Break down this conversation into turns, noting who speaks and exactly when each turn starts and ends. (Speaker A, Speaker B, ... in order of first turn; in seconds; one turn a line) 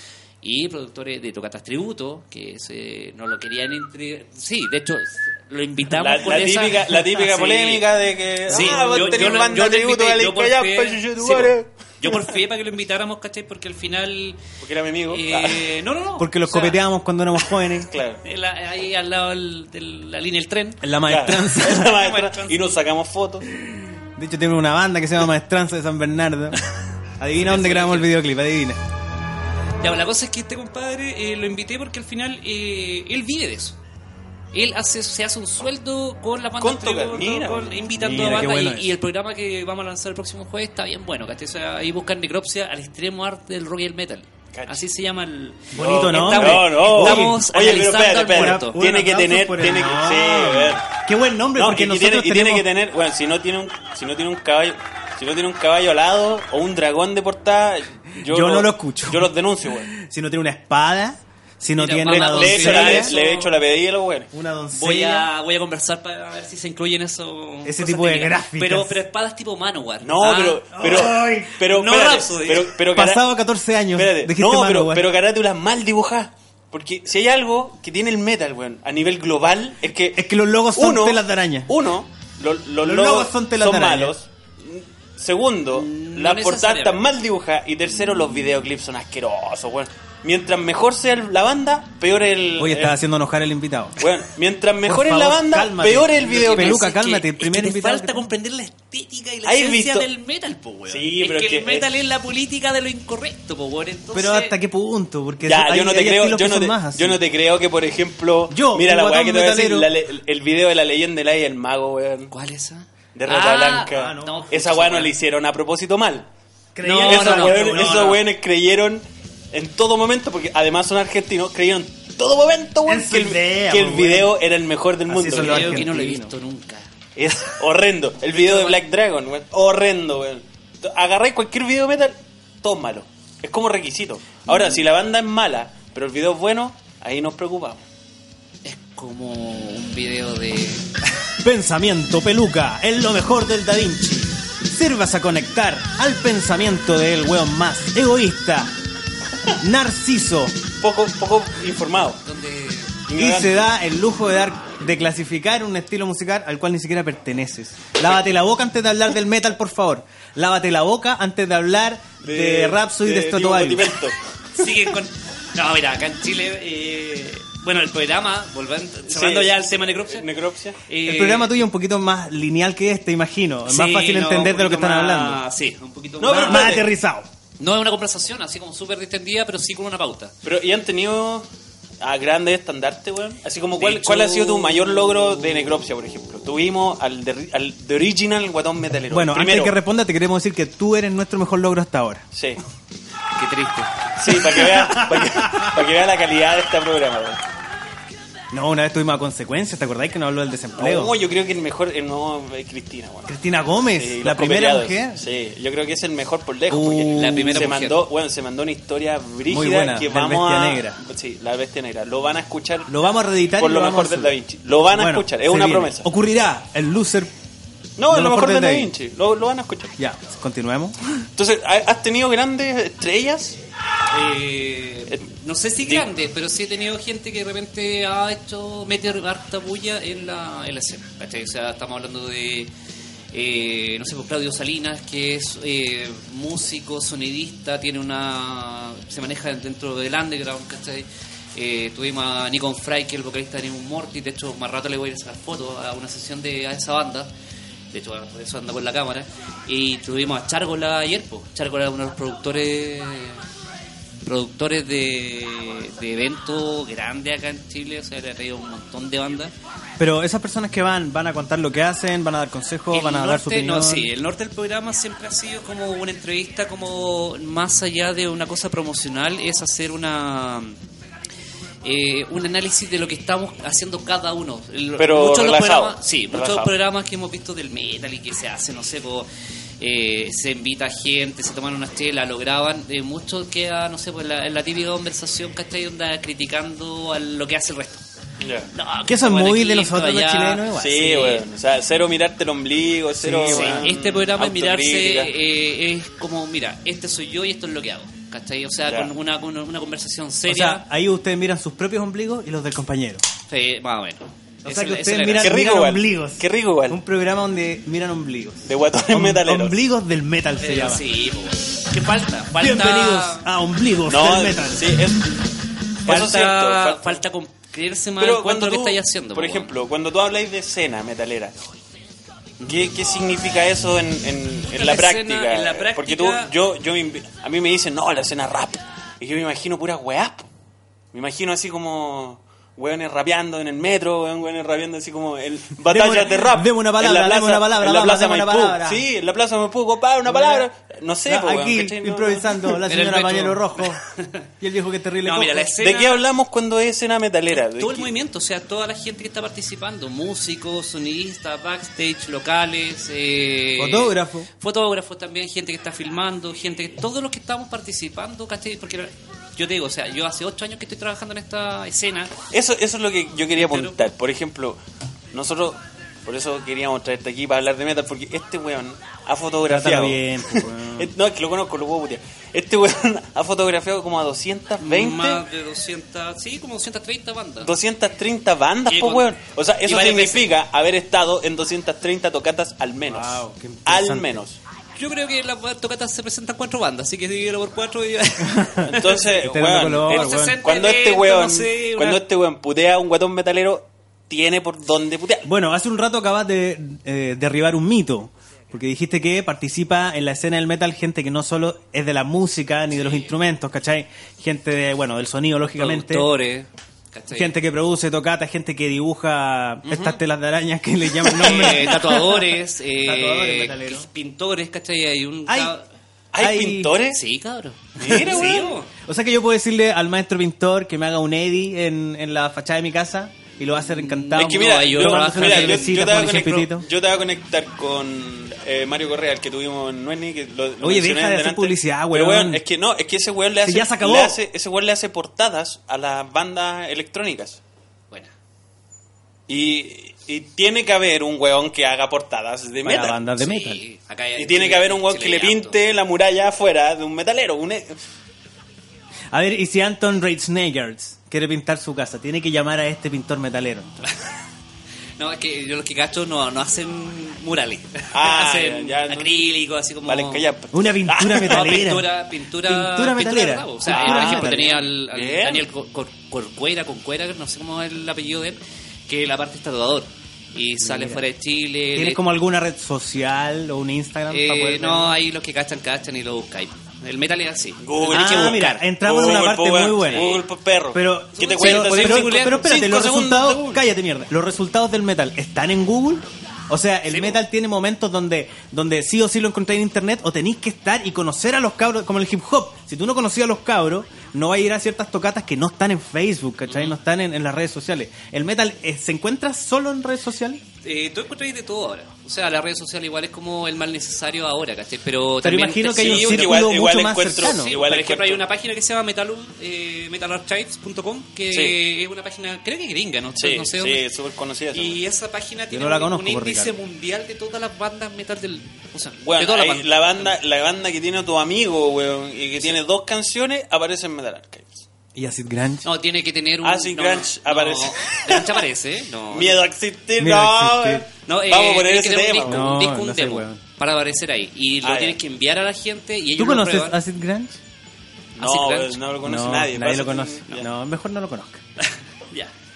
Speaker A: 0.4-7.8
Speaker B: 5.9-12.3
Speaker A: 8.5-14.4
Speaker C: 8.6-9.1
Speaker B: 14.6-15.6
Speaker A: 15.1-16.8
Speaker C: 16.2-17.9
Speaker B: 17.9-18.2
Speaker A: 18.2-20.8
Speaker C: 20.8-21.9
Speaker B: 21.1-23.5
Speaker A: 21.7-22.6
Speaker C: 23.7-26.6
Speaker C: 27.2-28.8
Speaker A: 27.4-28.1
Speaker A: 29.8-33.8
Speaker A: 34.5-48.8
Speaker B: 36.6-38.1
Speaker C: 38.0-38.9
Speaker B: 44.5-44.8
Speaker C: 45.7-47.4
Speaker B: 45.8-50.8
Speaker C: 48.3-52.7
Speaker B: 51.6-59.9
Speaker C: 58.2-59.3
Speaker C: 59.9-63.1
Speaker A: 61.8-63.5
Speaker B: 62.1-64.3
Speaker C: 64.3-65.3
Speaker A: 64.7-71.0
Speaker C: 67.6-69.0
Speaker B: 70.0-73.3
Speaker C: 70.8-71.6
Speaker A: 71.6-72.7
Speaker C: 72.9-75.1
Speaker B: 73.9-93.0
Speaker C: 80.2-81.7
Speaker C: 82.8-84.2
Speaker A: 85.7-87.0
Speaker C: 92.6-94.0
Speaker B: 94.0-96.8
Speaker C: 94.8-98.3
Speaker A: 96.2-104.5
Speaker B: 99.5-100.1
Speaker B: 100.9-101.9
Speaker C: 104.1-107.2
Speaker B: 105.5-112.3
Speaker C: 108.5-109.9
Speaker A: 112.3-115.1
Speaker B: 113.2-116.3
Speaker C: 113.9-114.4
Speaker C: 116.8-118.1
Speaker A: 116.8-118.2
Speaker B: 117.0-125.9
Speaker C: 122.9-124.3
Speaker C: 125.1-126.3
Speaker A: 125.4-126.9
Speaker B: 127.2-137.8
Speaker A: 128.3-128.8
Speaker A: 138.7-140.9
Speaker C: 141.4-148.7
Speaker C: 149.6-150.6
Speaker B: 150.8-152.2
Speaker A: 152.2-152.9
Speaker B: 153.1-153.7
Speaker C: 153.2-164.0
Speaker B: 162.2-164.2
Speaker A: 164.6-170.3
Speaker B: 169.1-170.8
Speaker A: 170.9-171.5
Speaker C: 171.1-175.4
Speaker A: 173.7-176.8
Speaker B: 176.2-176.9
Speaker C: 176.2-177.3
Speaker A: 177.6-180.3
Speaker B: 180.4-181.5
Speaker B: 182.0-189.8
Speaker A: 183.8-185.7
Speaker C: 189.1-192.2
Speaker B: 192.3-192.6
Speaker A: 193.4-194.1
Speaker B: 194.2-197.4
Speaker C: 194.3-195.8
Speaker C: 198.5-201.1
Speaker B: 200.8-203.3
Speaker C: 203.3-205.2
Speaker B: 203.9-212.9
Speaker C: 206.7-207.7
Speaker A: 207.1-208.0
Speaker C: 209.5-211.0
Speaker C: 212.9-214.3
Speaker B: 213.6-216.1
Speaker C: 214.9-217.3
Speaker B: 218.0-219.9
Speaker C: 218.1-218.9
Speaker C: 220.0-221.0
Speaker B: 221.4-223.6
Speaker A: 224.1-232.7
Speaker A: 233.3-247.3
Speaker A: 247.9-253.4
Speaker A: 254.2-259.5
Speaker C: 260.0-264.1
Speaker A: 262.9-270.8
Speaker A: 271.8-279.3
Speaker B: 275.0-276.7
Speaker A: 279.8-288.0
Speaker B: 288.4-288.7
Speaker A: 288.7-291.4
Speaker C: 289.1-291.2
Speaker B: 290.7-295.3
Speaker C: 293.2-293.9
Speaker A: 293.5-300.9
Speaker C: 300.5-303.2
Speaker A: 303.5-305.5
Speaker C: 304.6-311.0
Speaker B: 305.4-307.0
Speaker B: 308.7-309.8
Speaker A: 310.6-313.5
Speaker C: 312.6-314.9
Speaker B: 314.1-315.4
Speaker B: 316.1-317.2
Speaker A: 316.1-319.7
Speaker B: 318.2-321.5
Speaker B: 322.6-330.5
Speaker A: 324.7-326.5
Speaker B: 331.1-342.8
Speaker C: 335.9-339.0
Speaker C: 340.3-340.7
Speaker C: 341.3-344.0
Speaker A: 342.9-344.4
Speaker C: 344.6-345.7
Speaker A: 345.2-346.2
Speaker B: 345.8-348.1
Speaker A: 347.6-362.3
Speaker C: 353.8-354.5
Speaker B: 362.5-364.8
Speaker A: 363.6-364.0
Speaker B: 365.3-375.4
Speaker C: 369.6-371.1
Speaker A: 374.8-377.7
Speaker B: 377.6-384.6
Speaker A: 378.9-379.3
Speaker A: 379.9-380.5
Speaker C: 383.1-384.4
Speaker A: 385.0-388.8
Speaker C: 388.4-390.6
Speaker B: 388.9-395.5
Speaker A: 390.1-392.2
Speaker C: 395.4-406.3
Speaker A: 402.9-403.3
Speaker A: 405.8-407.6
Speaker C: 407.3-412.3
Speaker B: 409.9-410.2
Speaker B: 411.3-412.1
Speaker A: 411.3-415.9
Speaker C: 413.0-414.1
Speaker C: 415.5-415.7
Speaker B: 416.3-417.2
Speaker C: 416.4-417.0
Speaker A: 417.1-418.9
Speaker B: 418.0-418.8
Speaker C: 418.1-426.9
Speaker A: 423.8-426.3
Speaker B: 424.4-437.6
Speaker C: 430.8-432.6
Speaker C: 433.6-434.4
Speaker B: 439.5-443.2
Speaker C: 442.8-443.8
Speaker A: 443.4-445.8
Speaker B: 444.4-448.0
Speaker C: 449.3-454.1
Speaker A: 455.2-460.5
Speaker B: 458.1-459.4
Speaker B: 460.1-461.9
Speaker C: 460.7-462.1
Speaker A: 461.5-472.2
Speaker C: 462.6-464.8
Speaker B: 463.9-465.7
Speaker C: 470.8-471.2
Speaker C: 471.9-475.1
Speaker A: 474.3-478.8
Speaker B: 477.8-483.8
Speaker C: 478.1-480.3
Speaker A: 480.1-480.4
Speaker C: 480.9-500.6
Speaker A: 481.4-482.7
Speaker A: 487.1-487.4
Speaker A: 496.7-497.0
Speaker A: 500.8-506.7
Speaker C: 505.4-507.7
Speaker B: 506.0-508.4
Speaker A: 507.4-514.0
Speaker B: 511.5-511.8
Speaker B: 513.4-515.0
Speaker A: 514.7-520.3
Speaker C: 515.7-516.7
Speaker B: 519.2-524.9
Speaker C: 525.1-525.9
Speaker A: 525.8-529.6
Speaker B: 526.6-528.6
Speaker B: 529.3-532.7
Speaker C: 530.2-531.1
Speaker A: 531.3-537.0
Speaker C: 532.5-533.6
Speaker B: 534.8-535.2
Speaker C: 536.4-537.6
Speaker A: 538.4-539.0
Speaker B: 538.4-540.7
Speaker C: 539.2-541.6
Speaker A: 541.8-542.5